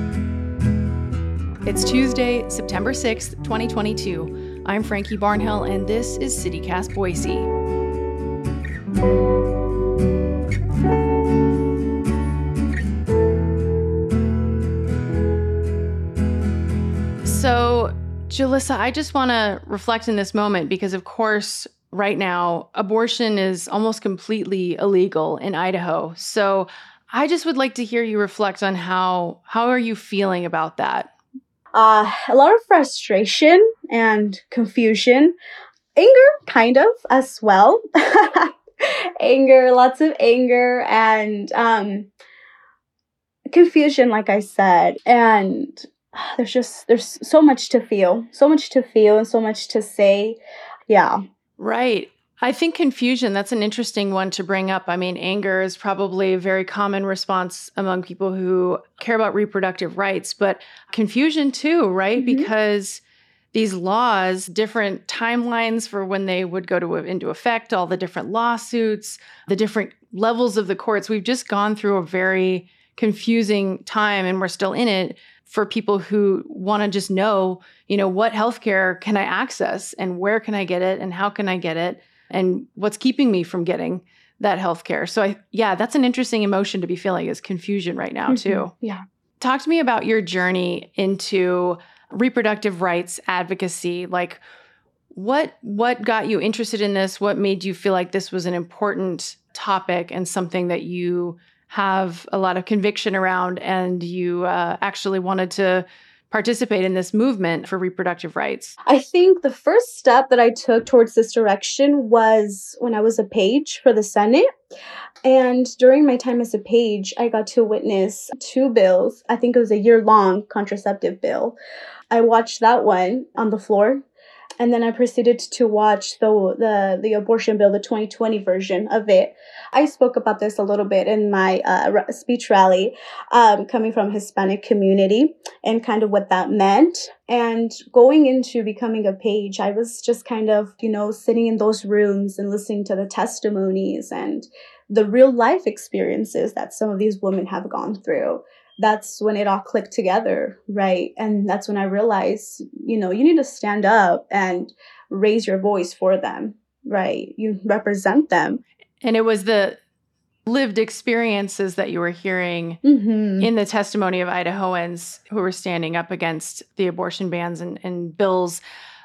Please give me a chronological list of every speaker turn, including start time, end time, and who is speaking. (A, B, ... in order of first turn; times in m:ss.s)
0:01.6-0:07.5 A
0:17.2-0:31.1 A
0:31.7-0:35.3 B
0:36.0-0:38.5 B
0:39.2-0:42.1 B
0:43.5-0:51.2 B
0:51.6-1:03.0 A
1:02.2-1:02.5 B
1:03.5-1:28.7 A
1:28.3-1:29.0 B
1:29.4-1:34.4 A
1:35.1-1:48.7 A
1:48.8-1:54.4 B
1:55.2-2:01.6 B
2:02.1-2:04.0 B
2:04.6-2:38.6 B
2:39.0-2:39.8 A
2:40.4-2:42.8 A
2:42.8-2:43.5 B
2:43.4-2:48.6 A